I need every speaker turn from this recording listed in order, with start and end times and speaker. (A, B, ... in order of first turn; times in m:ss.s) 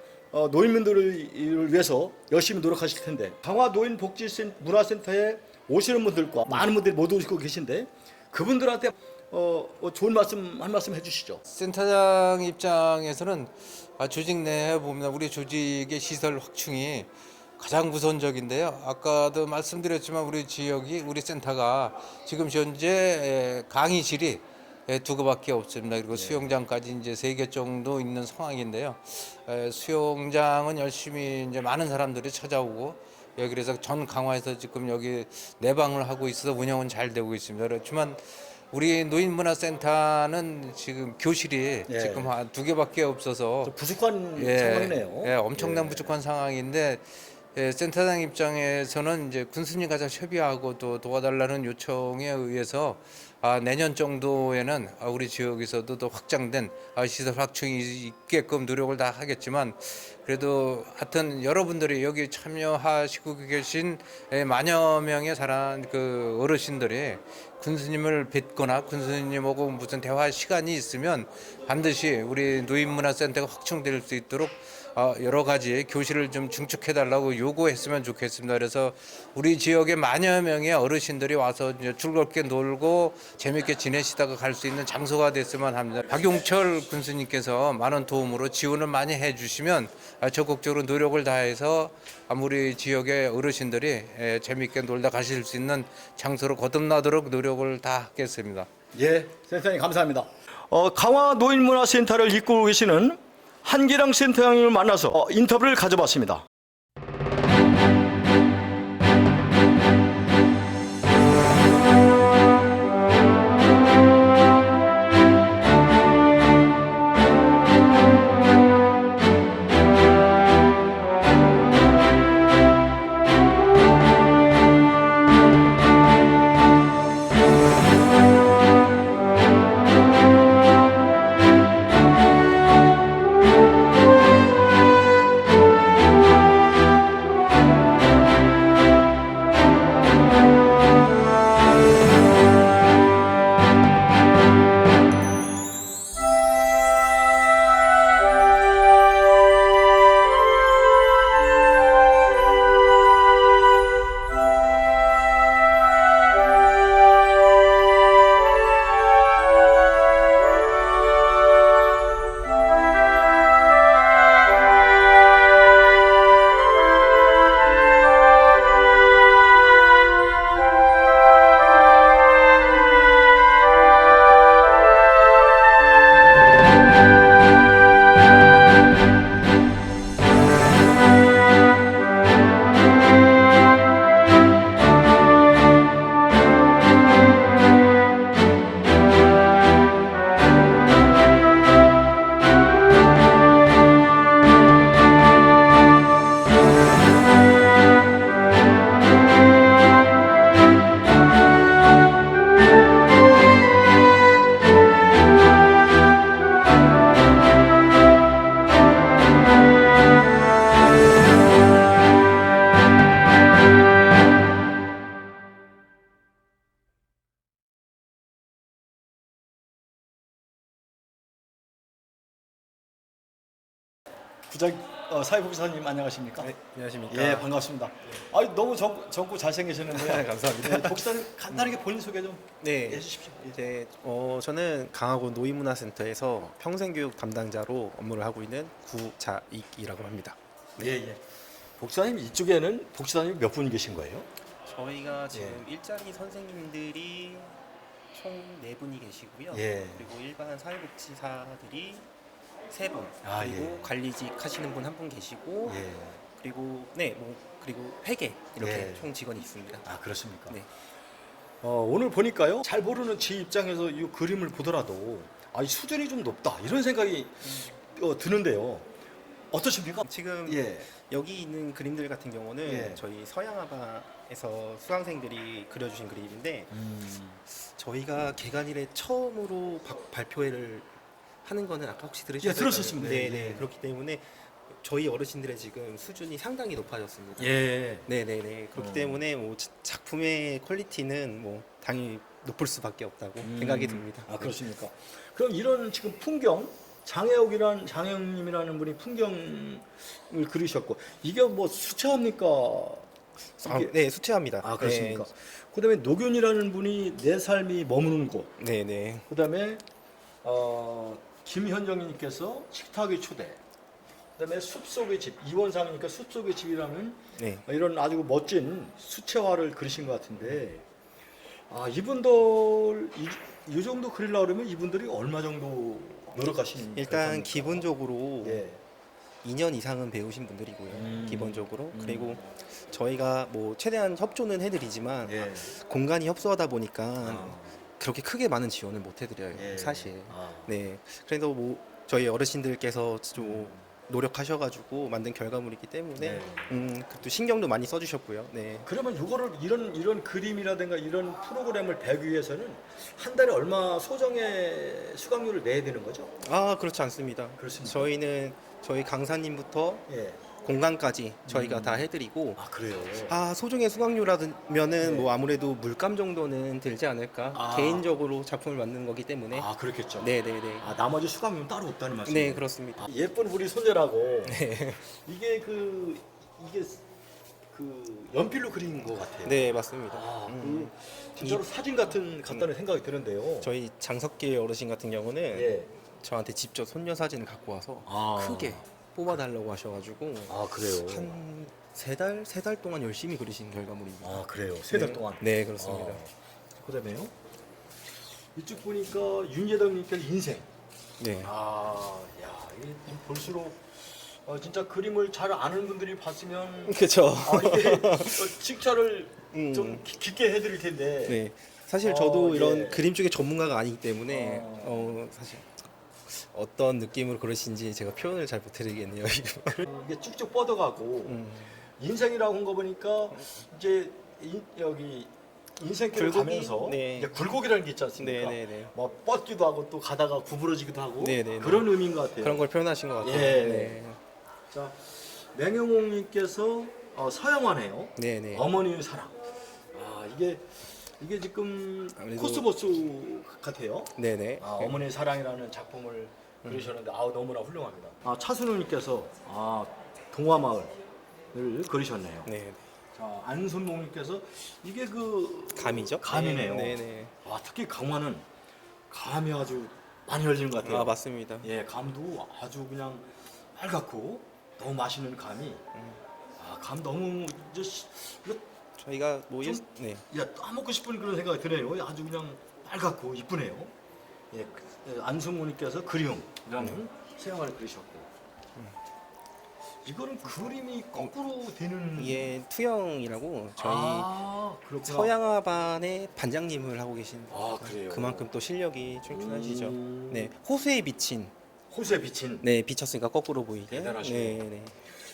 0:00.3-0:11.4 A
0:11.5-0:43.8 B
0:26.1-0:26.4 A
0:41.9-0:42.3 A
0:43.6-0:46.1 A
0:44.4-1:38.7 B
1:38.9-1:46.5 A
3:44.5-3:46.5 A
3:46.4-3:47.5 C
3:47.1-3:53.6 A
3:49.9-3:51.1 C
3:52.6-4:00.9 C
4:00.8-4:01.2 A
4:01.8-4:04.3 A
4:04.7-4:07.6 C
4:05.3-4:05.6 A
4:08.1-4:12.1 C
4:09.5-4:10.1 A
4:12.7-4:19.9 C
4:13.2-4:13.9 A
4:15.7-4:16.2 A
4:18.6-4:19.1 A
4:19.8-4:20.6 A
4:21.6-4:28.9 A
4:29.5-4:30.9 A
4:30.0-4:36.7 C
4:32.6-4:33.0 A
4:36.7-4:37.4 A
4:37.6-4:40.9 C
4:41.4-4:47.6 C
4:42.4-4:43.7 A
4:47.4-4:48.1 A
4:48.1-4:54.6 C
4:48.8-4:49.2 A
4:53.4-5:03.1 A
5:03.6-5:03.9 A
5:03.6-5:05.3 C
5:04.6-5:08.6 A
5:08.6-5:09.3 C
5:09.3-5:09.8 A
5:10.4-5:13.6 A
5:14.4-5:20.8 A
5:17.4-5:17.7 C
5:21.7-5:27.9 A
5:27.0-5:28.6 C
5:28.4-5:28.8 A
5:29.4-5:48.9 C
5:30.9-5:32.5 A
5:35.2-5:35.7 A
5:37.2-5:37.8 A
5:39.5-5:40.8 A
5:43.4-5:43.8 A
5:46.2-5:46.7 A
5:48.9-5:56.3 A
5:56.4-6:00.1 C
5:57.6-5:58.1 A
6:00.1-6:00.5 A
6:00.6-6:02.6 C
6:01.5-6:03.4 A
6:03.2-6:09.7 C
6:05.0-6:05.3 A
6:07.5-6:08.1 A
6:09.5-6:14.6 A
6:10.2-6:10.9 C
6:12.3-6:13.1 C
6:14.4-6:15.1 C
6:15.3-6:17.0 A
6:17.7-6:23.7 A
6:19.4-6:21.6 C
6:23.6-6:36.2 C
6:25.5-6:25.9 A
6:28.1-6:28.9 A
6:30.5-6:31.4 A
6:34.2-6:37.3 A
6:38.6-6:40.7 A
6:41.2-6:41.5 C
6:41.4-6:51.4 A
6:46.9-6:48.6 C
6:49.5-6:50.0 C
6:51.3-6:59.8 C
6:52.0-6:53.1 A
6:54.3-6:55.2 A
6:59.8-7:01.4 A
7:01.2-7:01.8 C
7:02.0-7:12.6 A
7:06.1-7:07.3 C
7:08.2-7:08.9 C
7:11.2-7:11.9 C
7:12.4-7:14.2 C
7:13.2-7:14.0 A
7:14.7-7:19.4 A
7:18.2-7:18.7 C
7:19.9-7:30.9 A
7:22.2-7:22.7 C
7:24.2-7:25.0 C
7:26.6-7:26.9 C
7:31.5-7:32.5 A
7:32.5-7:32.8 C
7:33.2-7:38.5 A
7:35.8-7:37.3 C
7:39.1-7:45.9 A
7:40.8-7:41.7 C
7:45.9-7:46.2 C
7:46.6-7:48.6 A
7:49.0-7:50.2 C
7:49.6-7:53.9 A
7:54.5-7:58.3 A
8:00.0-8:02.5 A
8:00.6-8:01.3 C
8:02.2-8:04.3 C
8:03.8-8:05.3 A
8:05.0-8:11.5 C
8:07.5-8:08.5 A
8:09.3-8:10.5 A
8:11.9-8:12.6 A
8:12.6-8:15.0 C
8:13.9-8:14.6 A